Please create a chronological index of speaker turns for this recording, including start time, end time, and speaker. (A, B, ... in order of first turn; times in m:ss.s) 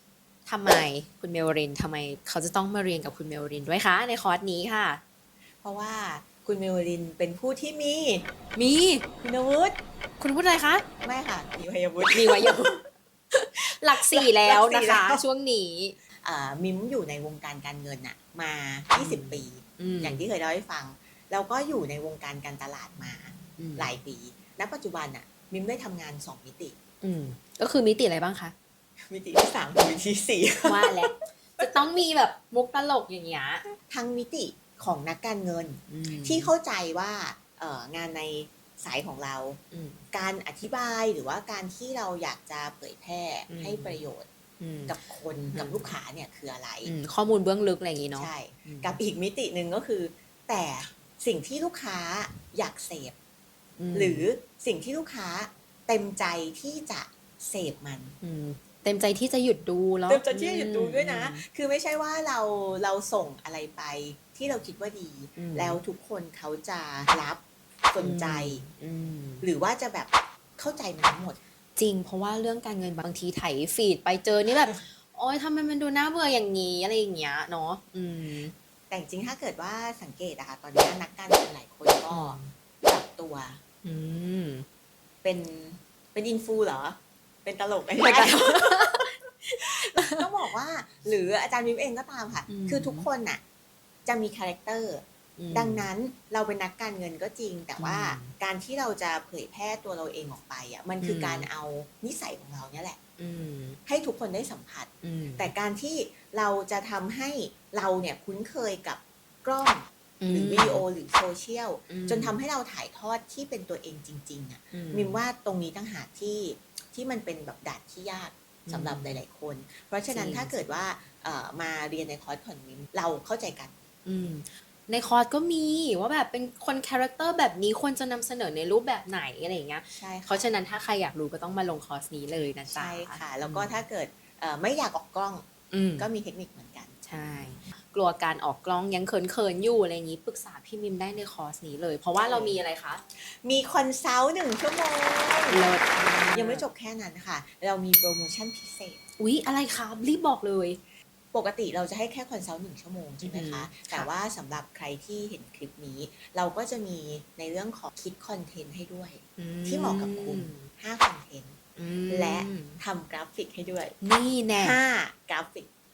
0:00.4-0:05.0 A
0:05.6-0:08.3 B
0:08.6-0:09.0 A
0:09.2-0:09.8 B
0:10.2-0:10.8 A
0:11.0-0:12.8 B
0:12.1-0:12.7 A
0:13.3-0:16.0 A
0:13.9-0:15.2 B
0:16.2-0:26.8 B
0:19.0-0:20.2 A
0:23.6-0:23.9 A
0:27.0-0:28.5 A
0:29.1-0:31.7 B
0:30.6-0:33.6 A
0:33.8-0:39.6 B
0:35.9-0:36.5 A
0:39.7-0:40.0 A
0:40.1-0:44.3 B
0:43.5-0:44.0 A
0:44.6-0:44.9 A
0:44.9-0:46.9 B
0:45.5-0:45.9 A
0:46.8-0:49.0 A
0:48.1-0:53.1 B
0:53.8-0:54.2 A
0:53.9-0:58.2 B
0:58.2-1:01.4 A
1:00.1-1:08.6 B
1:05.4-1:05.8 A
1:08.0-1:09.4 A
1:09.4-1:11.4 B
1:11.8-1:18.5 A
1:18.9-1:23.6 B
1:22.1-1:22.5 A
1:23.8-1:24.6 A
1:25.2-1:29.0 B
1:28.0-1:30.2 A
1:29.9-1:33.4 B
1:32.5-1:33.1 A
1:34.0-1:43.0 B
1:35.4-1:35.9 A
1:37.8-1:38.3 A
1:41.0-1:41.5 A
1:43.2-1:43.8 A
1:43.8-2:03.7 B
1:45.0-1:45.5 A
1:50.2-1:50.8 A
1:51.9-1:52.4 A
1:54.7-1:55.2 A
1:58.7-1:59.2 A
2:00.1-2:00.5 A
2:04.0-2:13.8 A
2:09.9-2:10.5 B
2:12.7-2:15.5 B
2:15.7-2:16.1 A
2:16.0-2:17.0 B
2:17.0-2:23.0 A
2:22.2-2:22.6 B
2:23.2-2:25.7 B
2:25.5-2:26.6 A
2:26.3-2:29.0 B
2:29.2-2:30.8 A
2:31.3-2:41.6 B
2:33.2-2:34.1 A
2:39.4-2:40.7 A
2:41.8-2:42.8 A
2:42.1-2:44.0 B
2:44.0-2:44.8 A
2:44.6-2:45.7 B